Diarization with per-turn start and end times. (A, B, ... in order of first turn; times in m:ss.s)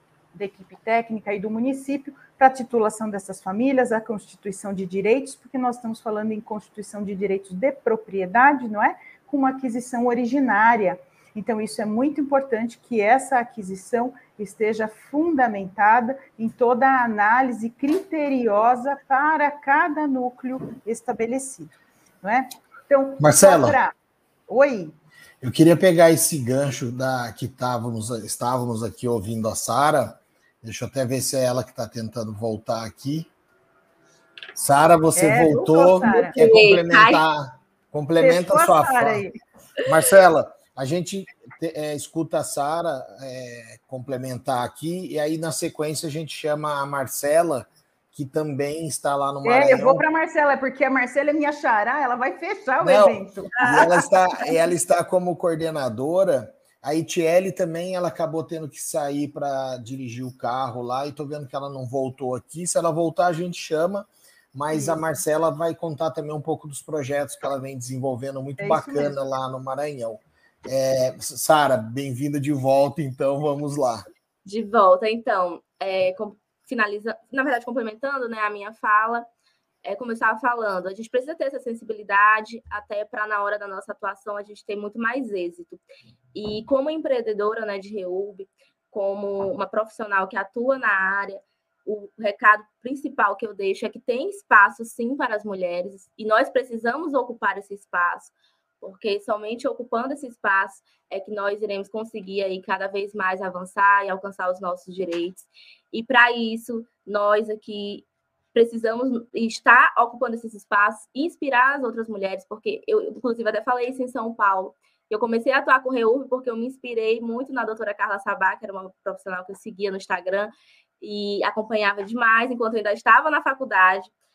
0:00.3-0:23.9 A
0:23.2-0:23.8 B
0:24.5-0:24.9 A
0:25.4-0:33.3 B
0:34.6-0:39.2 B
0:35.1-0:36.4 A
0:36.3-0:37.2 C
0:38.2-0:39.3 A
0:39.8-0:50.0 B
0:49.4-0:54.1 A
0:52.8-1:14.0 B
1:08.6-1:09.2 A
1:14.4-1:19.3 C
1:19.8-1:25.8 C
1:26.3-2:04.1 C